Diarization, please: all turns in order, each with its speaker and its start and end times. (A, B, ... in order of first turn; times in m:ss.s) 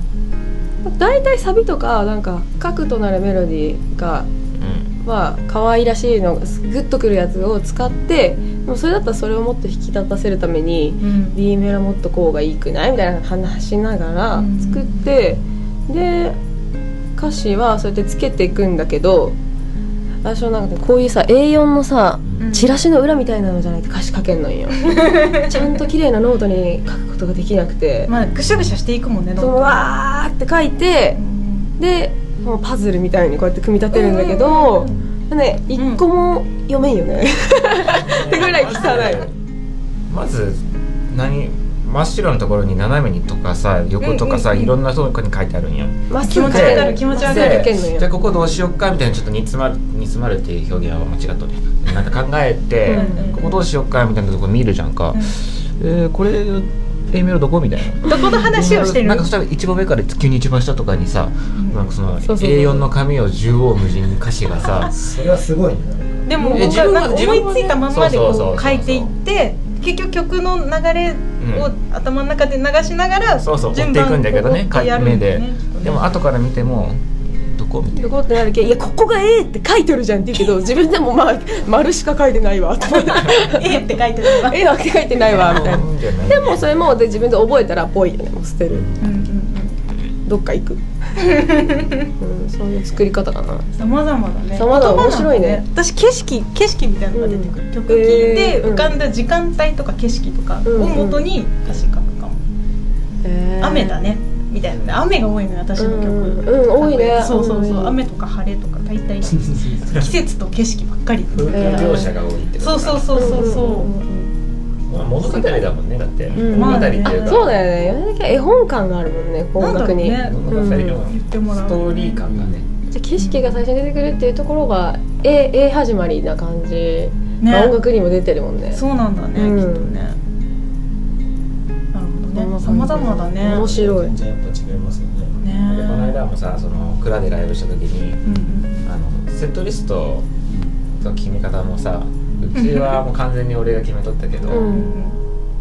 0:00.8-0:04.3 A
0:04.6-0:04.9 B
0:05.0-0:16.4 A
0:11.0-0:11.4 C
0:14.3-0:15.1 C
0:17.2-0:19.4 A
0:20.2-0:28.1 A
0:22.4-0:22.7 C
0:24.8-0:25.4 C
0:28.1-0:29.9 C
0:29.4-0:31.2 A
0:31.2-0:31.7 C
0:31.8-0:39.3 A
0:33.9-0:35.0 C
0:35.8-0:36.0 C
0:37.8-0:39.3 B
0:38.5-0:39.2 C
0:40.1-1:04.9 B
0:44.0-0:44.8 C
0:46.1-0:48.2 A
0:46.3-0:47.8 C
0:52.8-0:53.6 A
0:52.9-0:53.5 C
0:58.0-0:59.3 C
1:01.6-1:01.8 C
1:02.2-1:02.9 A
1:04.6-1:04.9 C
1:04.6-1:06.3 D
1:06.2-1:16.1 C
1:06.4-1:07.5 A
1:06.4-1:09.1 B
1:11.4-1:11.7 B
1:13.4-1:18.1 B
1:17.9-1:28.9 A
1:22.9-1:24.6 C
1:25.2-1:26.7 B
1:28.7-1:29.2 D
1:29.0-1:29.8 C
1:30.2-1:31.5 A
1:31.2-1:32.1 C
1:32.2-1:33.7 A
1:33.8-1:42.4 C
1:34.6-1:35.6 A
1:37.1-1:39.0 A
1:40.6-1:41.2 A
1:43.2-1:44.1 A
1:43.6-1:53.9 C
1:44.6-1:45.0 B
1:45.8-1:48.0 A
1:49.4-1:49.7 D
1:51.3-1:53.5 B
1:51.5-1:52.2 A
1:53.1-1:54.3 A
1:54.9-1:57.5 B
1:55.2-1:55.7 A
1:56.3-2:01.0 A
1:56.4-1:57.5 C
1:59.6-2:02.2 C
2:00.2-2:00.6 D
2:00.2-2:02.7 B
2:02.2-2:02.6 D
2:02.9-2:08.8 A
2:03.2-2:03.6 C
2:07.4-2:07.8 C
2:08.7-2:10.2 C
2:09.4-2:10.0 A
2:11.9-2:13.7 C
2:12.3-2:14.1 A
2:13.4-2:15.4 D
2:15.4-2:16.2 C
2:15.6-2:18.2 B
2:18.2-2:18.8 C
2:18.8-2:20.3 B
2:20.5-2:20.8 D
2:20.9-2:24.7 B
2:22.5-2:23.0 C
2:24.5-2:25.2 C
2:24.5-2:25.0 A